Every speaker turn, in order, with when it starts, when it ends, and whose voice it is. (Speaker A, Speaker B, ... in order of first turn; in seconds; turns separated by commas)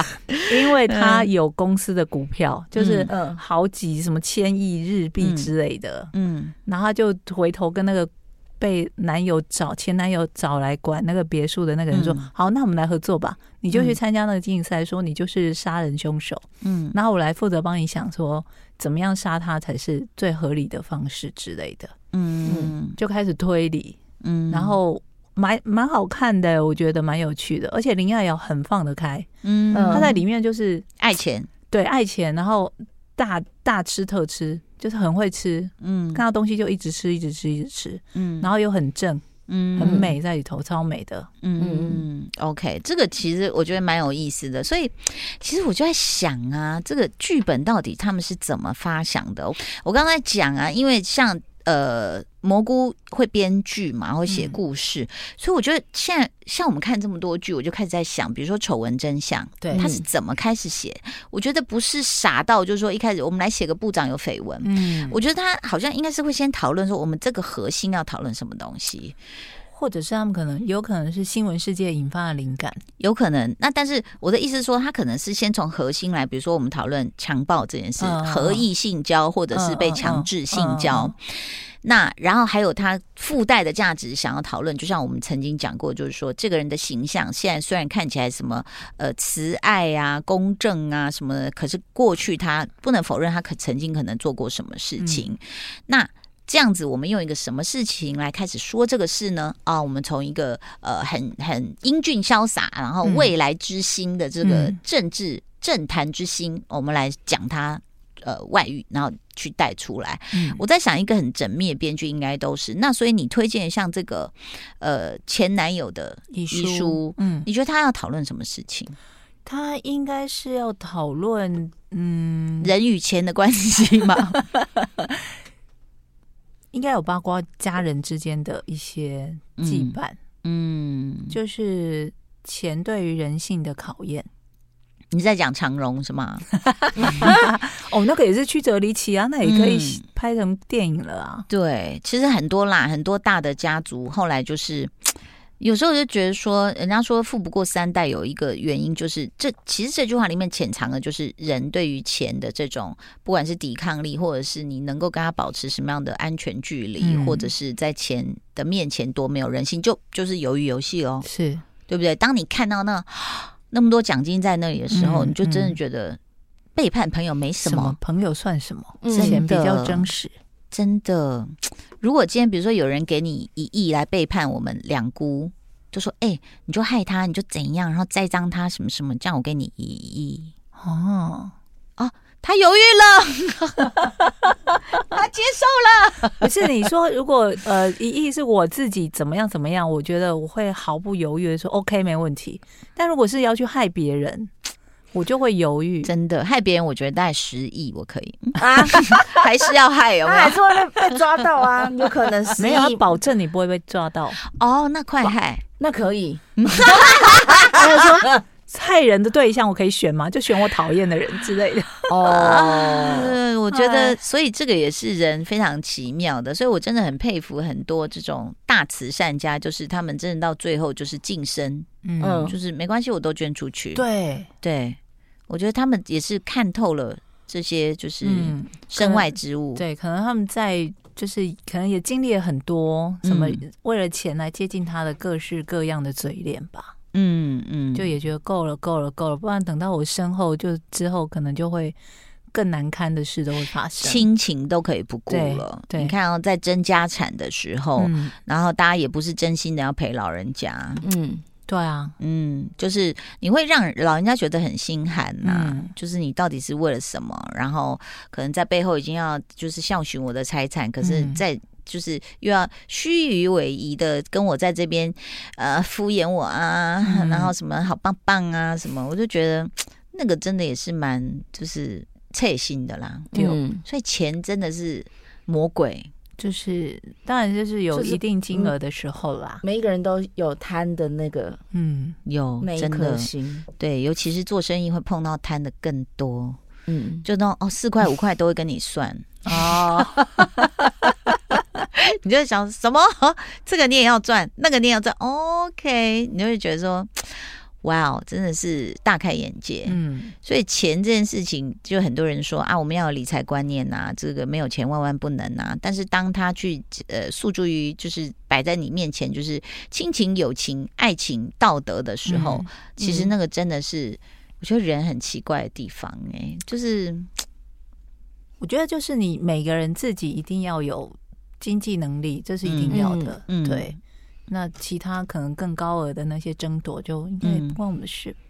Speaker A: 0.5-6.1, Speaker B: 0.9-1.3, Speaker B: 2.8-3.1, Speaker C: 3.1-3.4, Speaker B: 5.2-5.5, Speaker B: 6.1-6.5, Speaker A: 6.7-21.9, Speaker B: 11.9-12.3, Speaker B: 13.7-14.0, Speaker B: 16.6-16.9, Speaker B: 22.1-23.0, Speaker C: 22.5-22.7, Speaker A: 23.0-24.0, Speaker B: 24.2-24.8, Speaker A: 24.5-29.3, Speaker B: 29.4-30.2, Speaker C: 29.7-30.2, Speaker A: 29.9-30.9, Speaker B: 31.0-31.5, Speaker A: 31.7-41.3, Speaker B: 35.8-36.2, Speaker B: 38.1-38.5, Speaker B: 39.5-40.1, Speaker C: 39.8-40.1, Speaker B: 41.4-69.2, Speaker C: 41.6-42.0, Speaker A: 54.3-54.6, Speaker A: 59.6-59.9, Speaker A: 64.6-65.2, Speaker A: 69.7-72.8, Speaker B: 73.0-119.0, Speaker A: 78.0-78.7, Speaker A: 79.5-81.1, Speaker A: 95.0-95.3, Speaker A: 103.0-103.3, Speaker A: 104.4-104.8, Speaker A: 110.3-110.6, Speaker A: 116.3-117.5, Speaker A: 119.5-122.7, Speaker B: 122.6-124.4, Speaker A: 126.7-130.2, Speaker B: 129.6-131.4, Speaker A: 131.3-134.3, Speaker B: 135.1-136.5, Speaker A: 137.0-141.5, Speaker B: 139.4-140.0, Speaker B: 141.5-161.3, Speaker A: 157.0-157.5, Speaker A: 161.2-161.6, Speaker B: 161.9-166.2, Speaker A: 164.9-165.8, Speaker B: 166.8-168.0, Speaker A: 167.6-170.3, Speaker C: 169.0-169.4, Speaker B: 169.1-170.1, Speaker B: 170.7-180.5, Speaker A: 180.8-181.5, Speaker B: 182.0-184.1, Speaker B: 185.0-186.5, Speaker A: 186.4-194.5, Speaker A: 195.1-196.1, Speaker B: 196.0-201.0, Speaker C: 198.6-199.3, Speaker C: 200.2-203.0, Speaker A: 202.6-204.4, Speaker B: 204.6-205.7, Speaker C: 205.8-207.1, Speaker B: 206.6-207.6, Speaker C: 207.6-208.0, Speaker A: 207.7-212.1, Speaker C: 212.1-213.3, Speaker B: 212.2-221.9, Speaker A: 213.7-214.2, Speaker A: 222.0-222.5, Speaker C: 222.2-222.6, Speaker B: 222.4-224.0, Speaker A: 223.9-224.5, Speaker B: 224.6-225.0, Speaker B: 225.5-229.8, Speaker A: 228.2-236.9, Speaker B: 233.2-233.6, Speaker B: 237.1-238.1, Speaker A: 237.9-242.0, Speaker A: 242.5-244.3, Speaker B: 244.0-251.1, Speaker A: 245.3-246.2, Speaker A: 248.0-248.3, Speaker C: 251.0-251.4, Speaker A: 251.7-252.2, Speaker B: 252.2-276.1, Speaker A: 255.4-255.9, Speaker A: 261.0-261.4, Speaker A: 267.0-267.5, Speaker C: 273.3-273.8, Speaker A: 276.4-279.6, Speaker C: 277.9-278.7, Speaker C: 279.6-281.6, Speaker A: 281.7-282.2, Speaker B: 282.2-286.6, Speaker C: 282.6-283.7, Speaker C: 286.9-287.3, Speaker B: 287.2-289.7, Speaker A: 289.5-290.3, Speaker B: 291.9-317.3, Speaker A: 299.9-300.3, Speaker A: 312.3-312.7, Speaker C: 313.0-313.3, Speaker A: 318.6-324.0, Speaker B: 322.6-324.0, Speaker C: 322.9-323.4, Speaker A: 324.5-328.4, Speaker B: 327.4-327.8